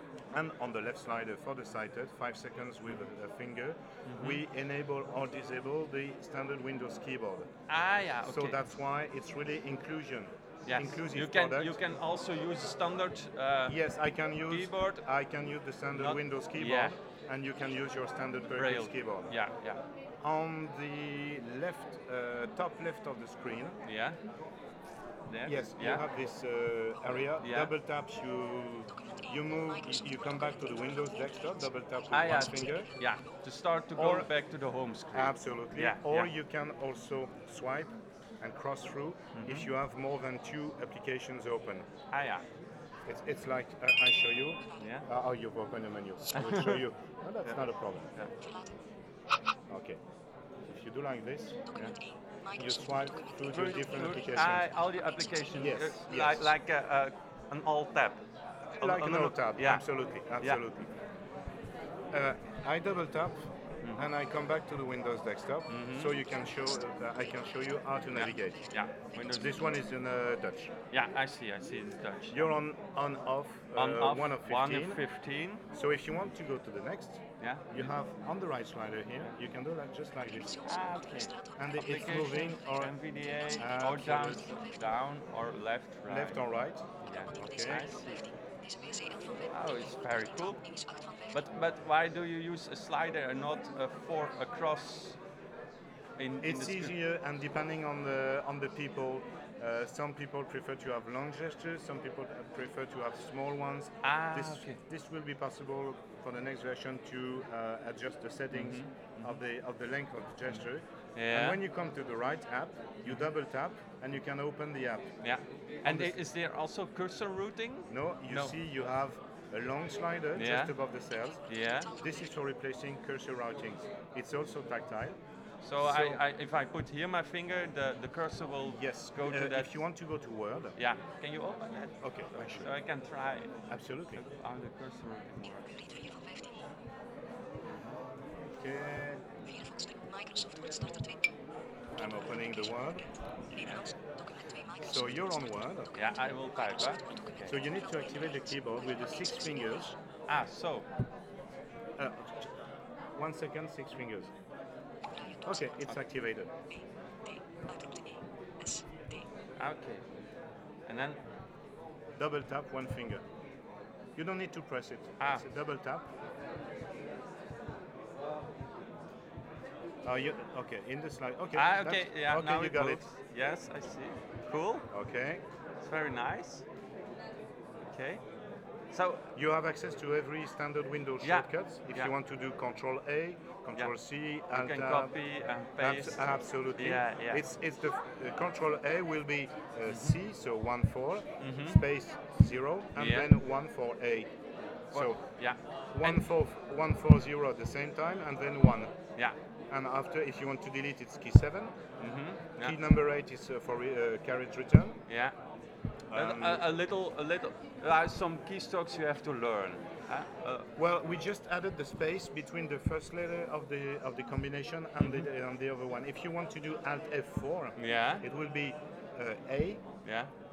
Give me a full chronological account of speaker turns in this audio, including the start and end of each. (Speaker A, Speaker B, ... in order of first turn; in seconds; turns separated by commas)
Speaker A: 0.3-7.5, Speaker B: 4.0-4.4, Speaker B: 7.7-8.6, Speaker A: 8.2-11.8, Speaker B: 10.7-13.8, Speaker A: 13.7-19.3, Speaker B: 14.5-15.0, Speaker B: 15.9-16.9, Speaker B: 18.5-19.8, Speaker A: 20.2-23.8, Speaker B: 23.8-24.2, Speaker B: 25.3-26.0, Speaker A: 25.4-32.9, Speaker B: 27.4-27.7, Speaker B: 32.1-36.3, Speaker A: 34.0-34.3, Speaker A: 35.1-41.9, Speaker B: 39.3-39.7, Speaker B: 42.1-42.5, Speaker A: 43.1-48.1, Speaker B: 44.8-45.0, Speaker B: 46.3-46.8, Speaker A: 49.7-50.0, Speaker A: 50.7-51.6, Speaker A: 52.5-54.7, Speaker B: 53.5-58.2, Speaker A: 55.5-56.5, Speaker A: 58.7-60.9, Speaker B: 58.8-59.8, Speaker A: 62.1-68.6, Speaker B: 65.7-66.2, Speaker B: 68.1-69.6, Speaker A: 69.3-70.7, Speaker B: 70.9-72.5, Speaker A: 72.3-75.0, Speaker B: 73.7-75.6, Speaker A: 75.7-80.7, Speaker B: 77.4-77.9, Speaker B: 80.6-86.4, Speaker A: 81.5-83.0, Speaker A: 83.5-84.5, Speaker A: 86.1-87.9, Speaker B: 87.0-88.3, Speaker B: 89.5-90.6, Speaker B: 91.3-95.2, Speaker B: 96.2-96.9, Speaker A: 96.4-115.1, Speaker B: 104.0-104.8, Speaker B: 108.5-109.4, Speaker B: 111.2-111.6, Speaker B: 115.2-118.5, Speaker A: 115.8-116.2, Speaker A: 117.9-125.2, Speaker B: 120.3-120.7, Speaker B: 121.5-121.9, Speaker B: 125.6-129.7, Speaker A: 125.8-126.2, Speaker A: 128.7-130.8, Speaker B: 130.8-133.5, Speaker A: 132.0-132.7, Speaker A: 133.7-134.2, Speaker B: 134.1-135.8, Speaker B: 137.7-137.9, Speaker A: 138.6-139.2, Speaker A: 141.9-143.0, Speaker B: 143.6-143.9, Speaker A: 144.8-145.9, Speaker B: 145.9-147.5, Speaker A: 147.5-149.9, Speaker B: 150.3-150.9, Speaker A: 152.0-152.5, Speaker A: 153.1-154.3, Speaker A: 155.4-156.5, Speaker B: 159.6-160.0, Speaker B: 160.9-161.2, Speaker A: 162.2-163.2, Speaker A: 164.2-166.1, Speaker A: 170.0-173.0, Speaker B: 171.5-174.9, Speaker A: 174.9-175.4, Speaker B: 175.8-176.6, Speaker B: 177.8-178.2, Speaker B: 178.9-179.3, Speaker A: 179.3-185.2, Speaker B: 181.2-182.1, Speaker B: 184.5-187.4, Speaker A: 185.8-194.3, Speaker B: 189.9-190.1, Speaker B: 191.4-191.8, Speaker B: 192.9-193.3, Speaker A: 194.9-195.2, Speaker B: 194.9-196.2, Speaker A: 195.9-198.9, Speaker A: 199.7-201.8, Speaker B: 202.0-202.8, Speaker A: 202.6-205.0, Speaker B: 205.1-205.4, Speaker A: 206.1-206.7, Speaker B: 206.1-210.7, Speaker A: 210.8-219.8, Speaker B: 215.0-215.2, Speaker B: 217.8-218.2, Speaker B: 220.0-220.3